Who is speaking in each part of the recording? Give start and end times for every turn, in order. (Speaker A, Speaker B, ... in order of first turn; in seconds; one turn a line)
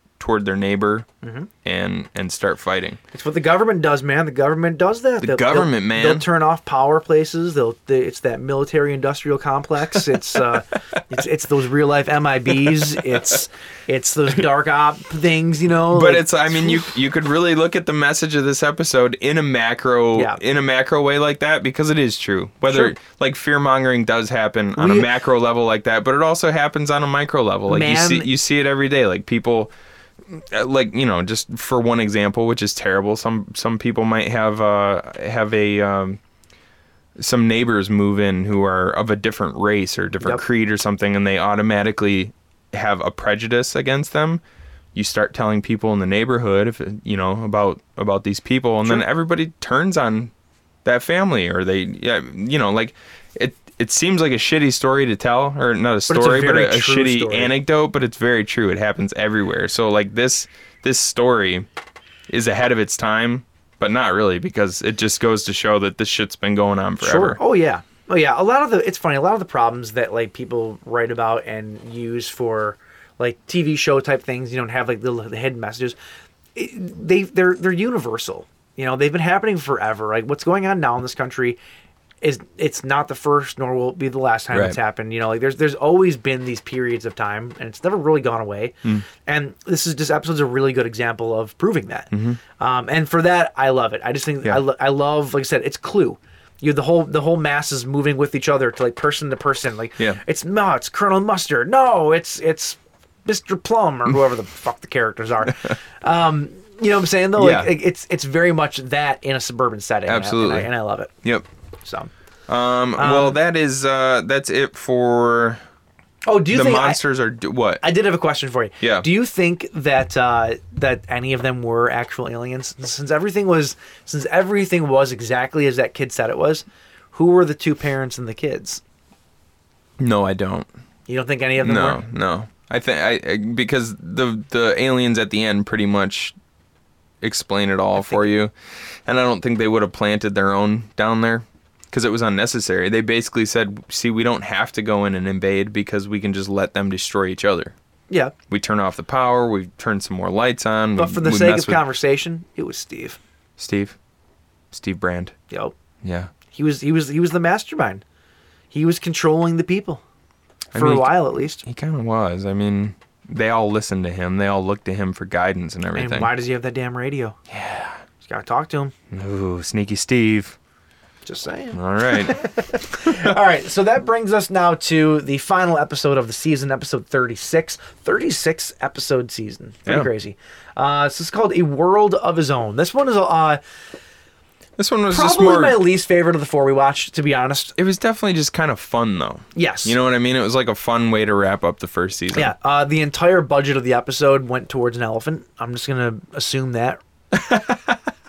Speaker A: 0.2-1.1
Speaker B: 1.2-1.5
Speaker A: 1.6-3.0
Speaker B: 3.1-16.9
Speaker A: 5.2-6.2
Speaker A: 15.9-29.7
Speaker B: 24.8-25.1
Speaker B: 27.7-28.3
Speaker A: 30.3-36.2
Speaker A: 37.2-44.4
Speaker A: 44.9-50.3
Speaker A: 50.9-61.6
Speaker B: 56.1-57.5
Speaker A: 62.3-67.4
Speaker B: 67.0-76.0
Speaker B: 76.5-81.6
Speaker B: 82.2-111.1
Speaker A: 84.5-84.8
Speaker A: 92.1-92.4
Speaker A: 107.4-107.7
Speaker A: 110.1-110.7
Speaker B: 111.8-112.1
Speaker A: 112.5-115.6
Speaker B: 113.0-113.4
Speaker B: 116.2-117.0
Speaker A: 116.5-117.8
Speaker B: 117.8-128.8
Speaker A: 118.8-119.1
Speaker A: 130.0-130.7
Speaker B: 131.1-132.0
Speaker A: 131.6-136.3
Speaker A: 137.2-138.5
Speaker A: 139.1-147.7
Speaker A: 148.5-151.8
Speaker B: 150.9-153.2
Speaker A: 153.6-154.0
Speaker A: 154.7-155.3
Speaker A: 156.0-156.3
Speaker B: 156.5-158.0
Speaker B: 158.7-160.0
Speaker A: 160.7-166.3
Speaker B: 160.7-161.6
Speaker B: 165.9-167.4
Speaker A: 167.5-168.0
Speaker B: 168.2-168.9
Speaker A: 169.1-170.6
Speaker B: 171.2-183.6
Speaker A: 171.7-172.4
Speaker A: 173.0-173.3
Speaker A: 184.8-185.8
Speaker B: 185.1-187.7
Speaker A: 187.8-192.5
Speaker B: 189.6-190.0
Speaker B: 192.3-197.0
Speaker A: 197.3-198.0